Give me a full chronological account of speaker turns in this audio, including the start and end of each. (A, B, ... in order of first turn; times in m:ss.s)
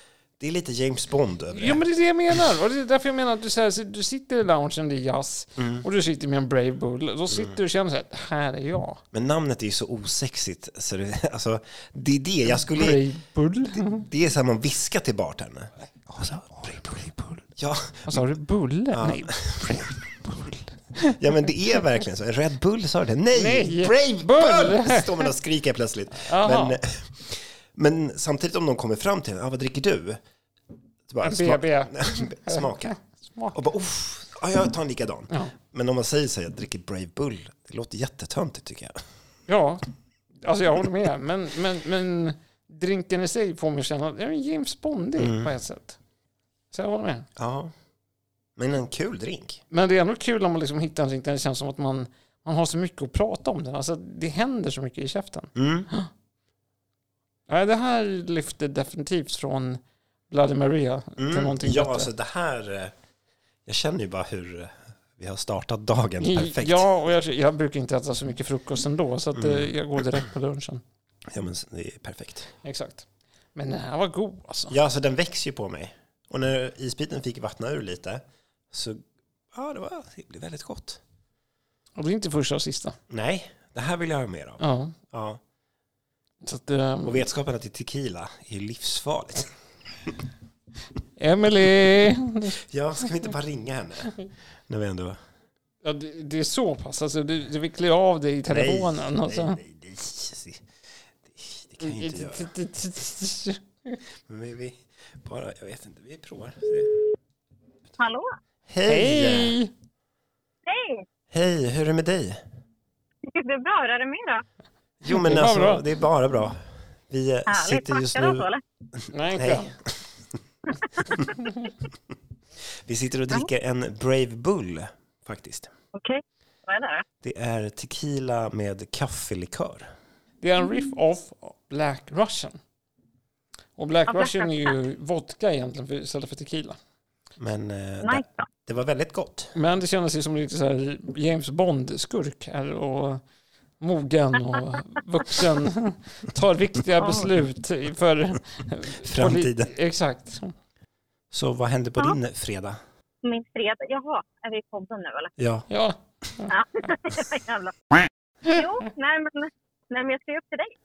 0:00.4-0:01.8 A
0:01.5-0:09.0 B
0:05.6-0:05.8 A
0:09.1-0:13.0 A
0:12.5-0:14.0 B
0:13.8-0:17.0 A
0:16.6-0:17.4 B
0:17.6-0:18.2 A
0:18.1-0:21.2 B
0:18.9-0:19.9 A
0:21.0-0:30.2 A
0:23.3-0:25.3 B
0:26.2-0:26.8 B
0:31.1-0:33.0 A
0:31.2-0:33.6 B
0:33.5-0:39.0 A
0:39.5-0:39.8 B
0:40.4-0:46.0 B
0:45.2-0:45.5 A
0:46.7-0:47.3 B
0:47.4-0:47.7 A
0:48.6-0:49.6 A
0:49.7-0:56.1 B
0:55.6-0:55.9 A
0:57.5-1:02.1 B
1:01.2-1:02.9 A
1:03.7-1:06.9 A
1:06.2-1:10.8 B
1:09.4-1:09.7 A
1:11.3-1:12.5 A
1:12.6-1:14.8 B
1:14.7-1:19.0 A
1:19.5-1:21.0 A
1:22.0-1:23.0 B
1:23.1-1:25.4 A
1:24.6-1:25.0 B
1:26.4-1:27.2 B
1:27.0-1:29.5 A
1:31.2-1:32.6 B
1:32.6-1:34.2 A
1:34.7-1:35.2 A
1:35.8-1:39.6 B
1:38.5-1:40.6 A
1:41.2-1:42.5 A
1:41.8-1:44.0 B
1:44.3-1:47.0 A
1:48.0-1:48.4 C
1:48.7-1:49.6 A
1:48.9-1:49.7 B
1:50.7-1:51.1 C
1:51.3-1:52.4 A
1:53.3-1:54.4 C
1:55.0-1:58.5 A
1:55.1-1:55.9 B
1:57.5-1:58.6 C
1:59.0-2:00.0 A
1:59.1-1:59.7 B
2:01.2-2:01.5 B
2:02.9-2:05.7 A
2:05.9-2:07.0 C
2:07.2-2:09.9 A
2:10.4-2:12.6 B
2:13.8-2:16.8 B
2:14.1-2:14.7 C
2:17.4-2:19.5 A
2:18.0-2:18.5 C
2:19.6-2:23.2 B
2:23.8-2:30.5 B
2:27.0-2:27.3 C
2:29.0-2:29.7 A
2:31.3-2:32.8 A
2:33.2-2:35.3 C
2:35.4-2:35.7 A
2:35.7-2:36.5 B
2:36.5-2:37.7 C
2:38.4-2:40.7 C